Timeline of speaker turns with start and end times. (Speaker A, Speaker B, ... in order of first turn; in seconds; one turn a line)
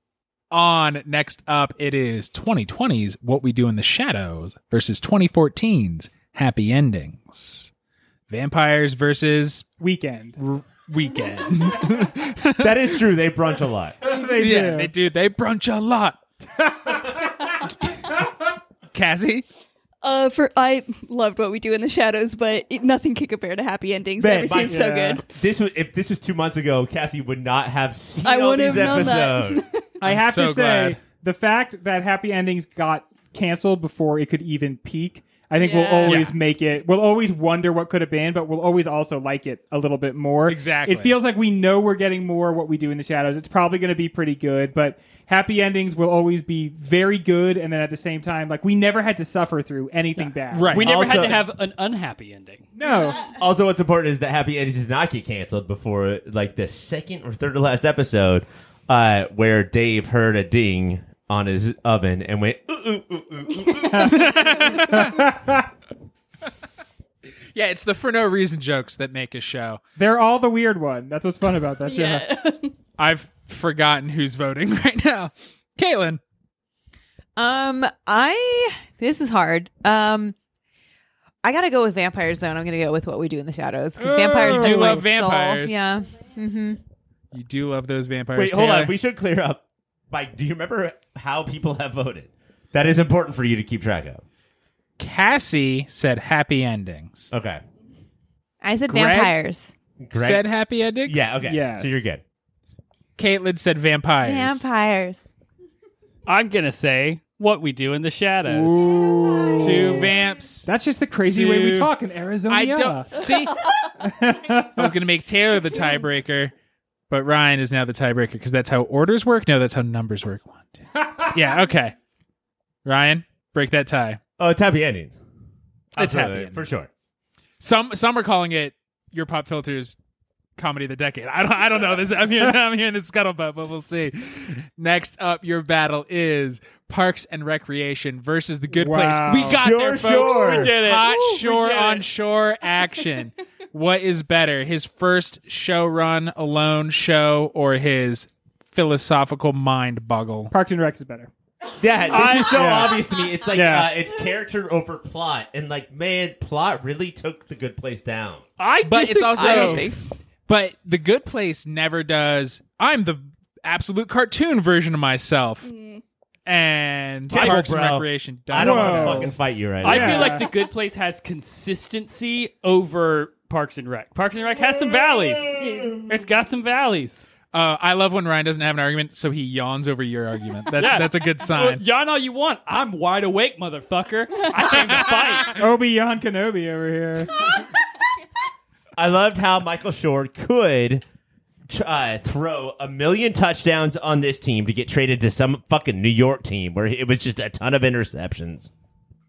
Speaker A: 0.5-7.7
Speaker A: 8.3-9.7
Speaker B: 9.8-10.4
Speaker A: 10.4-12.9
Speaker C: 12.6-14.0
Speaker B: 14.0-14.9
Speaker A: 14.3-16.2
Speaker B: 16.6-17.7
Speaker A: 18.9-19.4
Speaker D: 20.0-25.2
Speaker C: 24.2-29.6
Speaker B: 24.6-25.2
Speaker D: 28.2-29.9
Speaker B: 30.0-50.9
Speaker A: 30.0-31.0
Speaker D: 35.6-36.2
Speaker A: 36.0-36.3
Speaker A: 40.5-41.2
Speaker A: 50.5-51.3
Speaker E: 50.7-52.6
Speaker C: 50.8-51.4
Speaker B: 52.8-53.3
Speaker C: 53.3-64.3
Speaker B: 63.9-65.7
Speaker A: 64.0-65.2
Speaker A: 67.5-69.8
Speaker B: 70.0-72.2
Speaker D: 71.8-72.7
Speaker A: 73.0-76.2
Speaker F: 77.3-80.3
Speaker F: 81.4-86.8
Speaker A: 84.0-85.8
Speaker B: 84.5-85.0
Speaker A: 87.3-88.9
Speaker C: 88.3-94.2
Speaker A: 95.0-97.3
Speaker C: 97.3-97.6
Speaker F: 98.6-99.7
Speaker A: 98.9-99.3
Speaker C: 100.0-100.4
Speaker A: 100.1-101.3
Speaker C: 101.0-102.2
Speaker B: 101.4-102.0
Speaker A: 103.2-104.6
Speaker F: 104.2-105.3
Speaker E: 106.2-109.0
Speaker B: 108.5-110.1
Speaker F: 109.3-109.7
Speaker A: 109.6-110.7
Speaker B: 110.7-113.2
Speaker A: 111.2-111.9
Speaker A: 112.5-113.7
Speaker B: 114.0-114.9
Speaker A: 114.8-116.5
Speaker A: 117.1-122.0
Speaker A: 122.8-124.2
Speaker C: 124.4-125.2
Speaker C: 125.9-126.9
Speaker A: 126.0-126.7
Speaker A: 127.6-130.0
Speaker A: 130.6-150.5
Speaker B: 138.7-139.7
Speaker C: 139.4-140.8
Speaker E: 139.9-142.1
Speaker B: 150.5-151.3
Speaker C: 151.8-158.4
Speaker E: 152.1-152.9
Speaker B: 152.1-153.9
Speaker E: 158.6-159.9
Speaker A: 158.8-159.9
Speaker D: 159.3-160.1
Speaker A: 160.5-165.7
Speaker D: 165.6-166.0
Speaker A: 166.4-169.3
Speaker C: 167.3-170.4
Speaker E: 167.3-167.6
Speaker B: 168.5-170.5
Speaker E: 169.8-177.3
Speaker C: 174.6-176.2
Speaker D: 175.6-176.0
Speaker A: 177.5-181.8
Speaker E: 180.8-185.6
Speaker B: 185.5-187.5
Speaker C: 188.9-191.0
Speaker C: 191.7-198.7